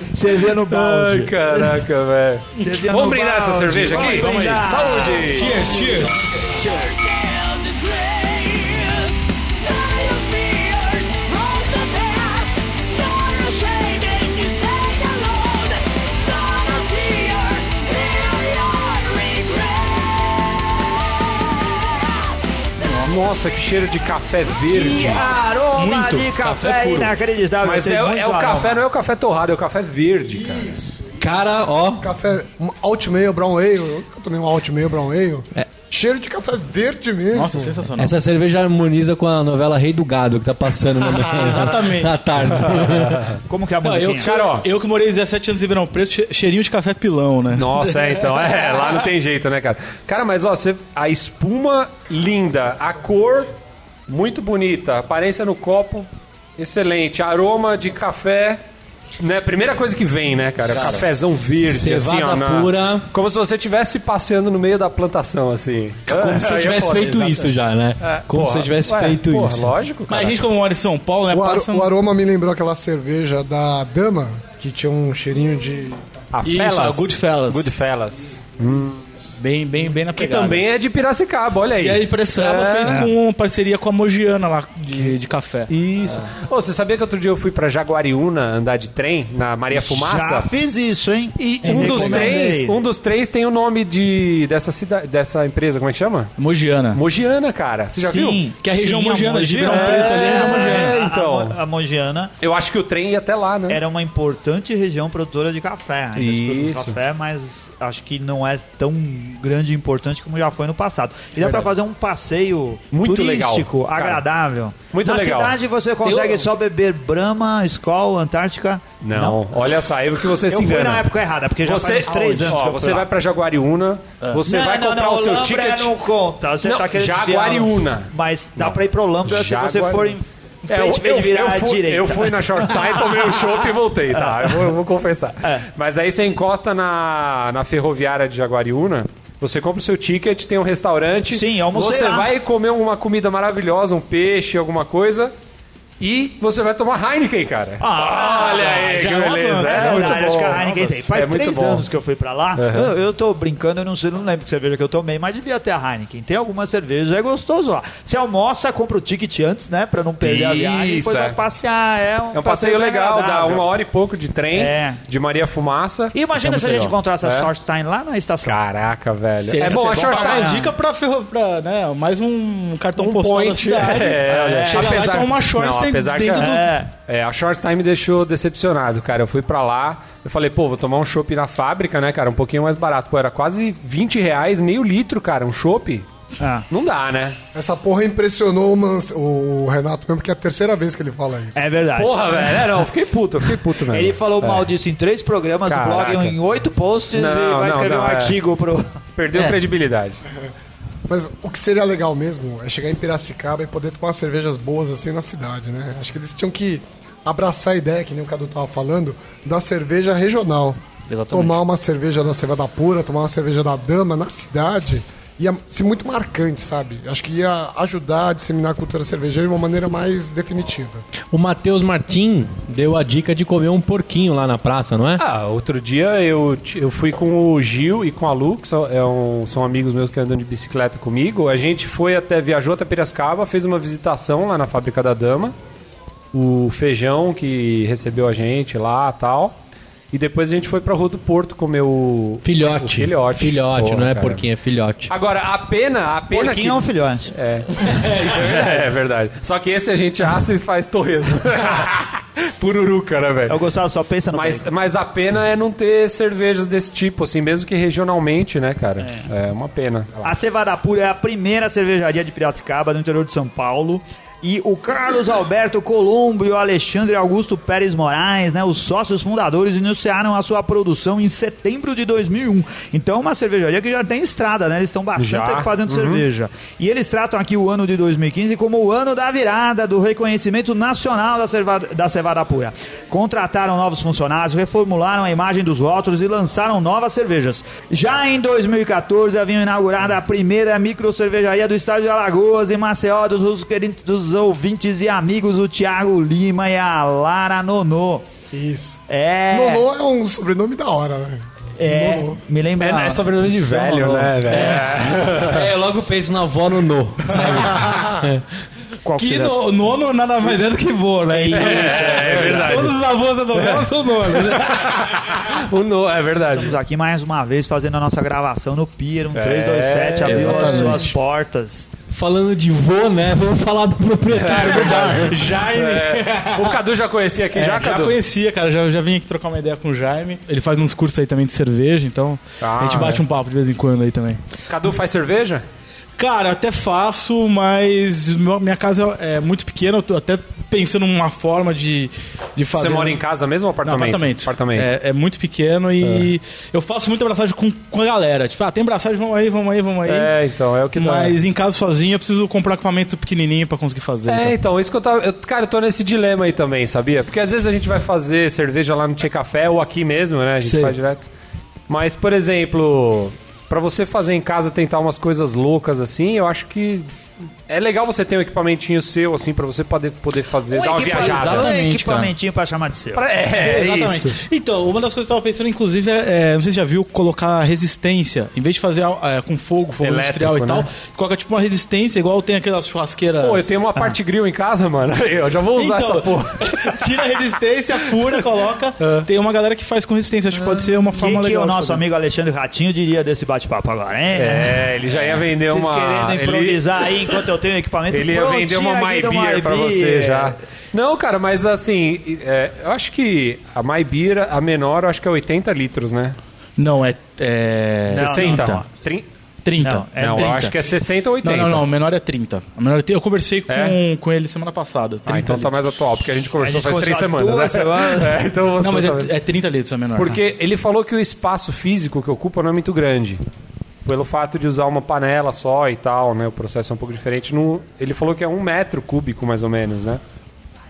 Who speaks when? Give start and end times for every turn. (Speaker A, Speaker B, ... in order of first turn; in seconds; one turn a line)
Speaker A: 0.1-1.7
Speaker B: 0.7-5.6
Speaker A: 2.6-5.5
Speaker C: 3.8-6.6
Speaker D: 5.6-23.1
Speaker B: 23.0-25.2
Speaker A: 24.7-28.8
Speaker C: 25.7-27.1
Speaker B: 27.6-30.7
Speaker E: 30.3-31.2
Speaker F: 31.2-32.0
Speaker E: 32.0-37.9
Speaker C: 37.3-38.1
Speaker F: 38.0-43.2
Speaker C: 41.3-42.6
Speaker B: 42.7-43.4
Speaker A: 43.5-44.3
Speaker C: 43.8-48.5
Speaker B: 44.2-44.7
Speaker B: 47.5-53.5
Speaker B: 54.1-58.6
Speaker B: 59.2-67.4
Speaker F: 61.6-63.1
Speaker F: 66.1-69.7
Speaker C: 67.1-67.4
Speaker B: 68.0-70.4
Speaker C: 70.1-71.9
Speaker E: 71.3-76.0
Speaker B: 76.3-79.0
Speaker C: 76.4-77.9
Speaker C: 79.4-80.6
Speaker B: 80.1-83.1
Speaker C: 81.8-86.2
Speaker B: 85.7-90.5
Speaker A: 89.7-92.8
Speaker B: 91.3-96.3
Speaker C: 91.6-92.4
Speaker C: 96.4-97.0
Speaker B: 96.9-98.4
Speaker A: 98.0-102.3
Speaker C: 98.6-101.0
Speaker B: 99.7-101.6
Speaker B: 102.4-103.8
Speaker A: 103.7-119.4
Speaker B: 106.2-107.0
Speaker B: 112.9-114.2
Speaker B: 114.9-115.6
Speaker C: 116.0-116.4
Speaker B: 119.0-121.1
Speaker A: 120.5-123.1
Speaker B: 121.6-125.9
Speaker C: 122.1-122.6
Speaker A: 124.4-133.3
Speaker B: 126.6-130.2
Speaker B: 130.7-145.3
Speaker A: 134.1-134.6
Speaker A: 141.3-142.3
Speaker B: 146.0-151.9
Speaker A: 147.8-148.9
Speaker C: 148.4-151.0
Speaker A: 149.6-163.7
Speaker B: 152.6-152.9
Speaker B: 160.2-161.4
Speaker B: 162.3-167.5
Speaker A: 164.5-165.0
Speaker A: 166.1-168.6
Speaker B: 168.4-170.6
Speaker C: 169.5-176.7
Speaker A: 169.5-170.7
Speaker B: 173.0-186.1
Speaker A: 176.4-176.9
Speaker A: 186.4-186.7
Speaker B: 186.7-187.4
Speaker E: 187.5-191.6
Speaker A: 191.6-192.8
Speaker B: 192.0-194.7
Speaker A: 193.8-199.0
Speaker B: 195.7-196.3
Speaker B: 197.1-198.3
Speaker B: 199.2-200.2
Speaker E: 201.1-210.8
Speaker C: 211.1-211.6
Speaker E: 211.3-221.0
Speaker F: 221.3-225.2
Speaker B: 225.2-235.5
Speaker B: 236.3-239.5
Speaker B: 240.1-244.4
Speaker F: 242.4-245.1
Speaker B: 245.1-253.6
Speaker A: 246.3-247.3
Speaker C: 247.9-248.3
Speaker A: 253.5-254.7
Speaker B: 254.3-260.3
Speaker A: 260.2-298.3
Speaker B: 275.1-276.2
Speaker E: 298.5-302.4
Speaker A: 299.1-299.8
Speaker A: 301.8-304.9
Speaker B: 302.8-305.7
Speaker F: 305.4-308.4
Speaker C: 307.3-308.2
Speaker A: 309.0-309.6
Speaker C: 309.2-314.9
Speaker A: 311.3-313.0
Speaker B: 311.5-313.0
Speaker B: 313.6-316.7
Speaker A: 316.5-321.9
Speaker B: 319.3-321.1
Speaker F: 320.2-321.1
Speaker C: 320.3-321.0
Speaker F: 322.1-325.3
Speaker B: 324.3-328.2
Speaker C: 324.5-326.8
Speaker C: 327.5-334.4
Speaker B: 332.6-333.2
Speaker B: 334.7-335.6
Speaker C: 336.2-343.2
Speaker B: 342.7-344.9
Speaker C: 343.8-350.3
Speaker B: 346.0-346.3
Speaker B: 350.0-351.4
Speaker C: 350.9-354.5
Speaker B: 354.3-361.3
Speaker C: 360.6-361.0
Speaker B: 361.9-367.1
Speaker B: 367.7-371.7
Speaker A: 370.7-373.2
Speaker C: 371.1-372.3
Speaker B: 373.1-374.4
Speaker C: 373.5-383.7
Speaker B: 380.0-380.9
Speaker B: 383.4-387.1
Speaker C: 385.7-392.0
Speaker B: 389.0-389.2
Speaker A: 391.1-400.5
Speaker B: 394.3-397.4
Speaker B: 398.1-406.4
Speaker C: 406.8-408.8
Speaker B: 408.1-409.3
Speaker A: 408.1-408.8
Speaker C: 409.6-410.7
Speaker A: 409.8-410.7
Speaker B: 410.1-411.9
Speaker C: 411.4-415.8
Speaker B: 413.7-414.0
Speaker B: 415.2-419.3
Speaker A: 416.6-418.4
Speaker C: 418.8-420.4
Speaker B: 420.1-423.4
Speaker B: 424.0-430.2